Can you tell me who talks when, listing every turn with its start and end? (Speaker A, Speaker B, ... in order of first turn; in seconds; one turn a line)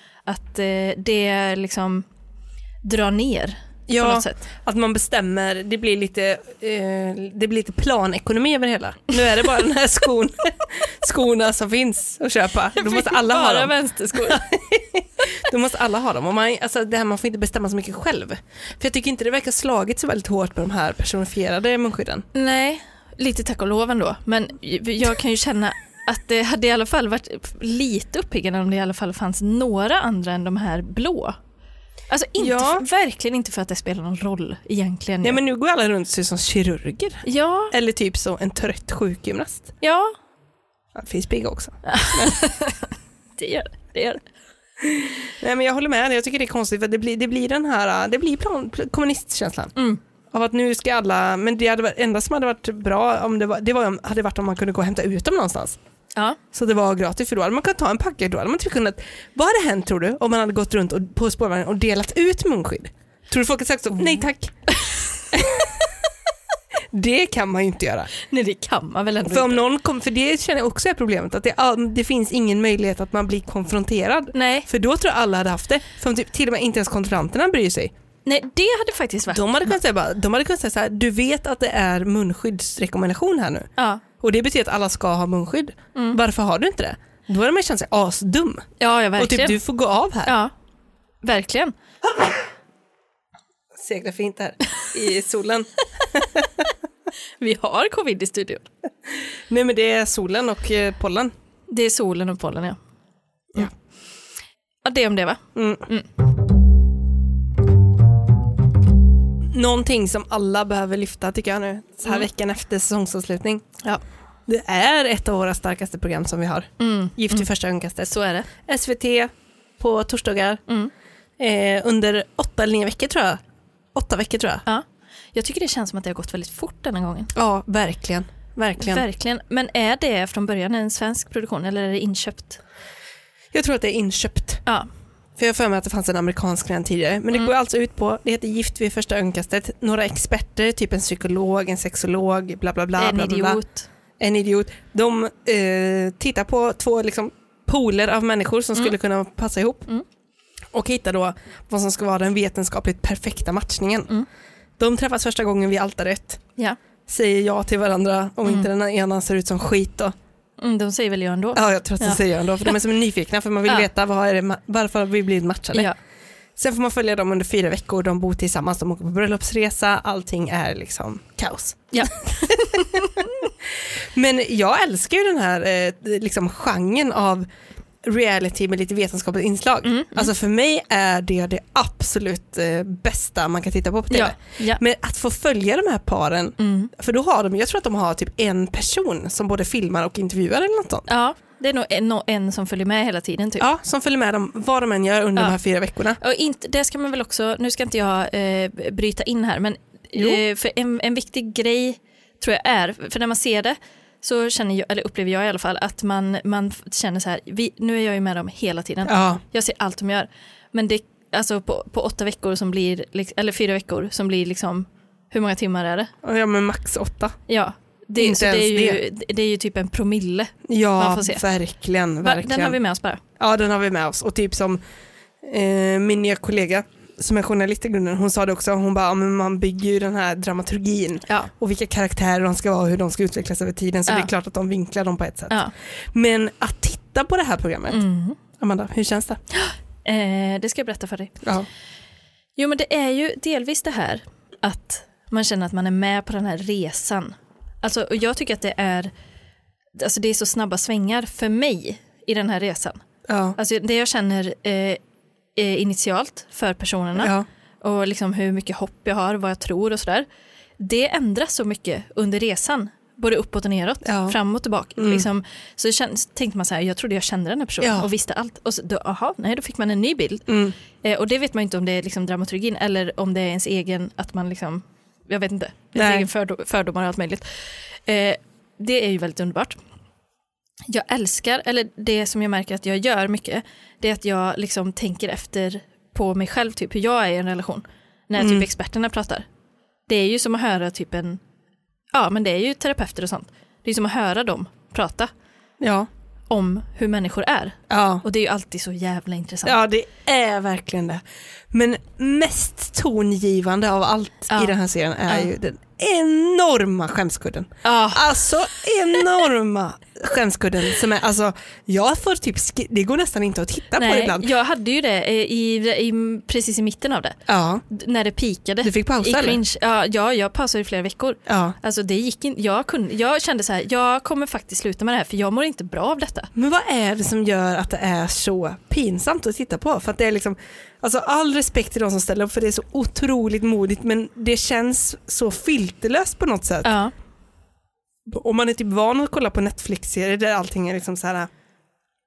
Speaker A: 0.3-2.1
Speaker A: 2.8-4.5
Speaker B: 3.9-22.2
Speaker A: 12.8-14.4
Speaker A: 22.3-31.4
Speaker A: 32.1-35.4
Speaker B: 32.4-32.8
Speaker B: 35.2-39.7
Speaker A: 37.2-37.7
Speaker A: 39.8-40.1
Speaker B: 40.9-42.4
Speaker A: 41.9-44.2
Speaker B: 44.8-49.7
Speaker B: 50.3-55.8
Speaker B: 56.5-65.9
Speaker B: 66.9-68.1
Speaker A: 68.2-69.6
Speaker B: 69.3-77.9
Speaker A: 74.3-74.7
Speaker A: 78.2-79.7
Speaker B: 79.3-83.7
Speaker A: 83.8-84.0
Speaker B: 84.2-90.3
Speaker A: 88.8-89.6
Speaker A: 90.2-90.5
Speaker A: 91.2-91.7
Speaker B: 93.8-96.7
Speaker A: 97.4-98.7
Speaker B: 99.5-101.3
Speaker A: 101.7-102.8
Speaker A: 104.8-106.1
Speaker B: 105.5-105.8
Speaker B: 109.5-113.8
Speaker B: 114.5-120.6
Speaker A: 116.8-117.5
Speaker A: 118.1-118.5
Speaker B: 121.4-123.4
Speaker B: 123.9-124.6
Speaker A: 124.7-127.3
Speaker B: 127.3-129.1
Speaker A: 128.8-132.6
Speaker B: 133.5-134.6
Speaker B: 135.4-143.6
Speaker A: 143.0-143.9
Speaker B: 144.2-149.9
Speaker B: 150.7-154.1
Speaker B: 154.8-156.4
Speaker B: 157.1-160.1
Speaker A: 160.6-162.2
Speaker B: 161.5-165.9
Speaker B: 166.6-177.4
Speaker A: 171.9-173.4
Speaker B: 178.0-191.1
Speaker A: 179.8-180.3
Speaker A: 184.1-184.8
Speaker A: 186.6-186.9
Speaker A: 191.1-193.7
Speaker B: 193.6-196.2
Speaker A: 196.2-216.1
Speaker B: 200.2-200.4
Speaker B: 209.1-209.4
Speaker B: 216.2-217.3
Speaker A: 217.5-221.4
Speaker B: 218.2-219.0
Speaker B: 220.7-222.8
Speaker A: 222.2-223.2
Speaker B: 223.4-224.8
Speaker B: 225.4-235.6
Speaker B: 236.1-238.0
Speaker A: 237.9-238.4
Speaker B: 238.6-239.4
Speaker A: 239.5-241.4
Speaker B: 241.4-241.7
Speaker A: 242.6-249.1
Speaker A: 249.9-253.0
Speaker B: 253.3-253.6
Speaker A: 253.6-255.0
Speaker A: 255.6-260.2
Speaker B: 257.2-257.4
Speaker A: 260.8-270.5
Speaker B: 264.0-264.4
Speaker B: 265.0-265.2
Speaker B: 267.8-268.1
Speaker B: 270.5-270.7
Speaker A: 271.0-277.4
Speaker B: 275.9-276.3
Speaker A: 278.1-279.8
Speaker A: 280.9-289.4
Speaker B: 288.4-288.6
Speaker A: 290.1-291.4
Speaker A: 292.1-295.3
Speaker B: 295.8-296.1
Speaker A: 296.5-299.8
Speaker B: 297.9-298.2
Speaker B: 299.6-314.5
Speaker A: 307.8-308.4
Speaker A: 313.9-317.4
Speaker B: 317.5-317.8
Speaker A: 317.9-326.5
Speaker B: 318.8-319.6
Speaker B: 321.5-321.7
Speaker B: 326.5-336.9
Speaker A: 336.8-337.1
Speaker B: 338.2-341.5